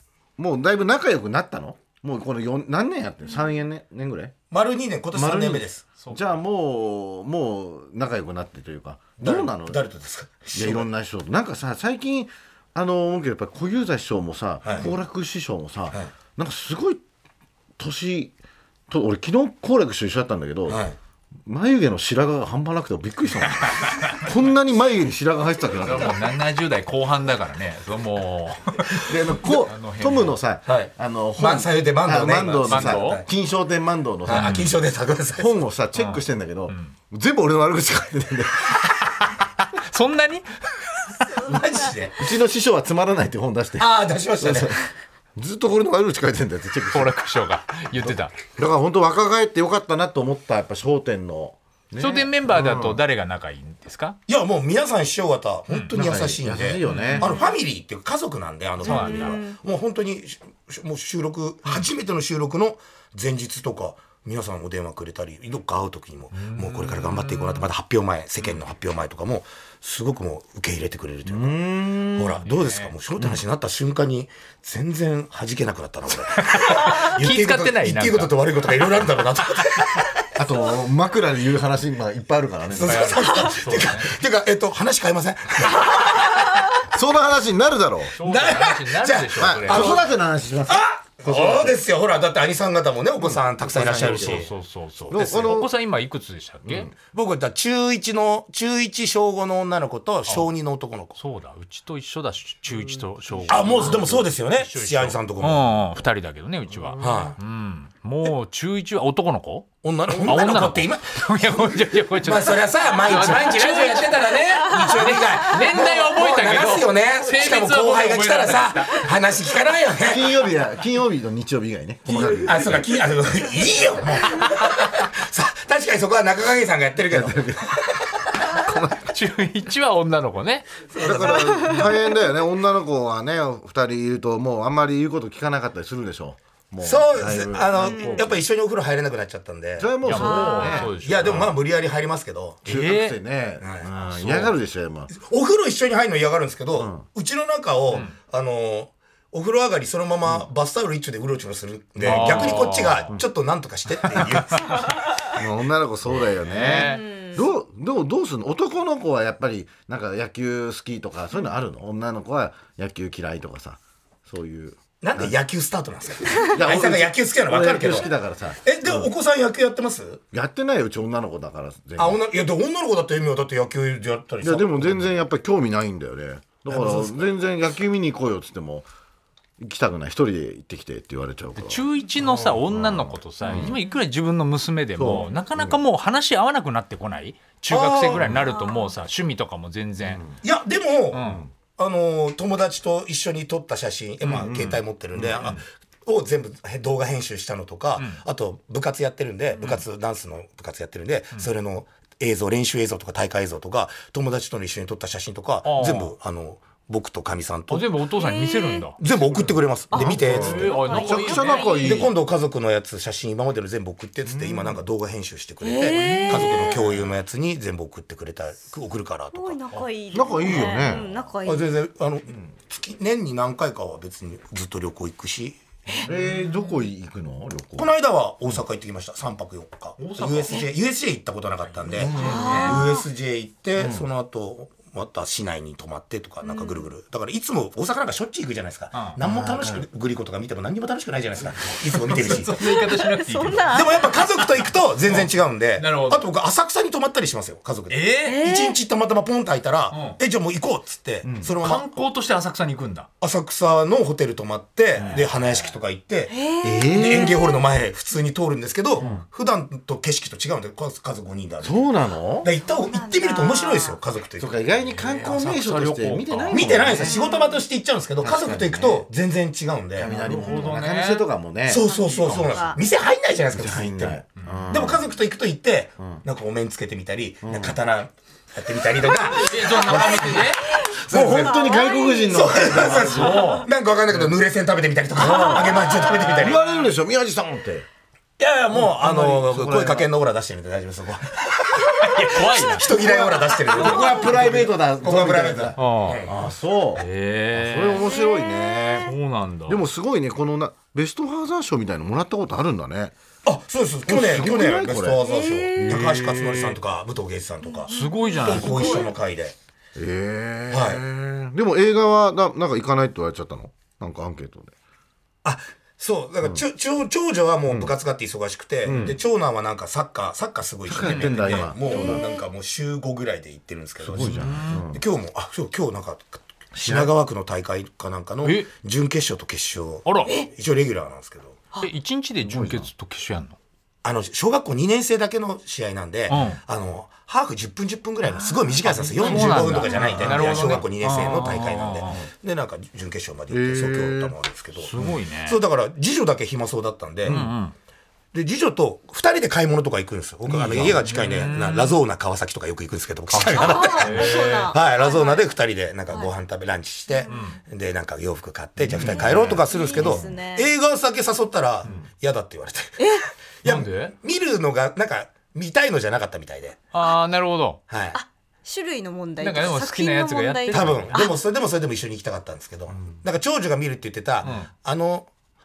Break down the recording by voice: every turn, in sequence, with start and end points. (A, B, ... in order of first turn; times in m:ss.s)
0:00.4-0:04.3 A
0:04.5-0:05.8 B
0:05.1-0:09.8 A
0:09.2-0:10.9 B
0:10.5-0:17.0 A
0:14.6-0:14.9 B
0:17.8-0:18.3 A
0:18.9-0:20.8 A
0:20.7-0:21.0 B
0:21.4-0:26.2 A
0:23.6-0:24.2 C
0:25.8-0:30.4 C
0:29.0-0:34.7 A
0:30.7-0:33.2 B
0:32.6-0:33.2 C
0:34.2-0:35.6 B
0:34.3-0:34.7 C
0:35.4-0:38.8 A
0:35.9-0:36.9 C
0:39.2-0:41.3 C
0:41.4-0:42.2 B
0:42.2-0:44.8 A
0:43.8-0:44.7 B
0:45.4-0:47.2 A
0:46.9-0:48.3 C
0:48.0-0:53.0 A
0:52.0-0:54.2 C
0:54.3-1:20.1 B
0:55.7-0:55.9 C
0:55.9-0:57.3 A
0:56.8-0:57.4 C
0:57.2-0:57.5 D
0:58.8-0:59.4 C
0:58.8-0:59.6 D
1:06.3-1:07.7 C
1:11.2-1:12.4 A
1:12.4-1:12.9 C
1:16.4-1:18.3 C
1:20.4-1:23.2 A
1:22.7-1:26.5 B
1:22.8-1:24.1 C
1:26.9-1:28.2 A
1:28.2-1:30.0 C
1:28.2-1:30.0 B
1:29.4-1:31.8 A
1:30.7-1:34.5 B
1:33.2-1:34.5 A
1:33.7-1:36.9 C
1:35.1-1:35.7 A
1:35.1-1:35.6 B
1:36.6-1:36.9 A
1:37.1-1:41.2 B
1:41.2-1:59.1 C
1:43.4-1:44.2 A
1:43.5-1:45.8 B
1:46.8-1:47.3 A
1:47.0-1:47.4 B
1:49.8-2:00.4 B
2:00.0-2:02.8 A
2:02.1-2:08.3 B
2:07.1-2:07.7 A
2:08.4-2:09.1 A
2:09.0-2:10.7 C
2:10.9-2:11.8 B
2:11.0-2:18.4 A
2:16.8-2:22.6 B
2:17.8-2:18.2 D
2:19.8-2:21.6 A
2:20.0-2:21.5 C
2:20.2-2:20.9 D
2:22.6-2:25.1 A
2:22.6-2:23.2 C
2:23.6-2:24.5 B
2:25.1-2:34.9 B
2:26.8-2:27.0 A
2:32.0-2:33.2 A
2:32.0-2:33.1 C
2:34.1-2:34.7 C
2:35.3-2:45.3 A
2:36.4-2:37.1 C
2:36.6-2:37.4 D
2:45.0-2:48.1 B
2:46.4-2:49.1 A
2:48.6-2:50.2 B
2:50.3-2:52.2 A
2:52.0-2:55.1 B
2:54.4-2:58.9 A
2:56.7-2:57.3 B
2:59.6-3:03.8 A
3:01.6-3:10.2 C
3:05.0-3:05.8 A
3:07.7-3:08.4 B
3:08.4-3:08.9 D
3:10.1-3:10.3 A
3:10.4-3:27.9 B
3:11.1-3:11.4 C
3:14.2-3:14.6 C
3:14.3-3:15.5 A
3:25.6-3:26.1 C
3:27.7-3:29.0 C
3:28.2-3:28.9 D
3:29.0-3:30.8 B
3:29.3-3:32.1 A
3:29.9-3:32.1 D
3:30.0-3:32.0 C
3:31.8-3:39.6 B
3:34.2-3:34.8 A
3:35.6-3:36.8 D
3:36.0-3:36.8 C
3:39.3-3:41.7 D
3:40.1-3:41.1 A
3:40.5-3:40.9 C
3:41.4-3:45.6 B
3:46.0-3:47.9 A
3:47.8-4:02.6 B
3:50.0-3:50.7 C
3:51.7-3:52.9 C
3:51.9-3:52.8 A
3:52.3-3:53.0 D
3:53.8-3:54.0 A
3:56.4-3:56.9 D
3:59.2-3:59.9 A
4:02.1-4:03.8 C
4:02.6-4:04.5 D
4:03.7-4:12.0 B
4:05.0-4:06.3 C
4:07.9-4:08.4 C
4:08.2-4:08.8 D
4:09.9-4:10.2 C
4:11.2-4:11.5 A
4:11.4-4:13.1 C
4:13.2-4:16.4 B
4:15.0-4:15.3 A
4:16.3-4:17.6 D
4:16.6-4:17.4 A
4:16.9-4:24.5 B
4:19.0-4:19.2 A
4:21.6-4:22.5 A
4:22.7-4:24.0 D
4:24.4-4:27.2 A
4:24.9-4:26.8 C
4:26.5-4:30.1 B
4:26.9-4:27.6 D
4:28.2-4:29.1 A
4:30.0-4:32.5 A
4:30.0-4:31.3 C
4:30.3-4:30.7 D
4:31.6-4:41.7 B
4:31.8-4:32.8 D
4:33.5-4:35.1 A
4:34.4-4:34.6 C
4:37.4-4:37.8 A
4:39.3-4:40.8 C
4:39.9-4:42.8 D
4:41.1-4:44.4 A
4:42.3-4:46.6 B
4:42.8-4:43.6 C
4:43.3-4:43.6 D
4:45.2-4:47.9 A
4:45.3-4:45.6 D
4:46.4-4:46.7 C
4:48.4-4:56.4 B
4:48.7-4:50.1 A
4:52.0-4:52.9 C
4:52.9-4:59.1 A
4:55.8-4:56.2 C
4:56.9-4:58.0 C
4:57.9-4:59.1 D
4:59.0-4:59.8 C
4:59.7-5:03.1 A
5:03.4-5:09.5 B
5:04.0-5:05.2 A
5:05.2-5:05.9 D
5:05.8-5:06.8 C
5:07.6-5:09.1 D
5:07.9-5:09.1 C
5:10.0-5:14.7 A
5:10.7-5:11.0 B
5:15.4-5:31.6 B
5:17.7-5:17.9 A
5:18.8-5:19.2 A
5:20.8-5:22.2 A
5:21.0-5:21.7 C
5:21.8-5:22.4 D
5:24.0-5:25.0 A
5:24.2-5:24.8 C
5:26.7-5:27.1 A
5:28.4-5:28.7 C
5:30.0-5:30.4 C
5:31.8-5:33.6 C
5:32.4-5:32.9 A
5:34.0-5:44.9 B
5:36.3-5:36.6 C
5:38.8-5:42.2 C
5:39.1-5:40.8 A
5:43.5-5:44.4 A
5:44.8-5:45.6 C
5:45.4-5:47.5 B
5:47.2-5:47.5 A
5:47.2-5:47.7 C
5:48.3-6:06.8 B
5:50.4-5:51.1 A
5:51.0-5:52.0 C
5:53.3-5:54.7 C
5:53.5-5:55.4 D
5:57.1-5:57.6 D
5:57.3-5:57.6 C
5:58.8-5:59.6 A
5:59.0-6:00.2 C
5:59.0-6:00.7 D
6:03.0-6:03.2 D
6:03.6-6:04.1 C
6:06.9-6:07.8 C
6:07.9-6:08.2 B
6:08.1-6:11.4 D
6:09.4-6:11.2 C
6:10.7-6:15.3 B
6:14.4-6:14.7 C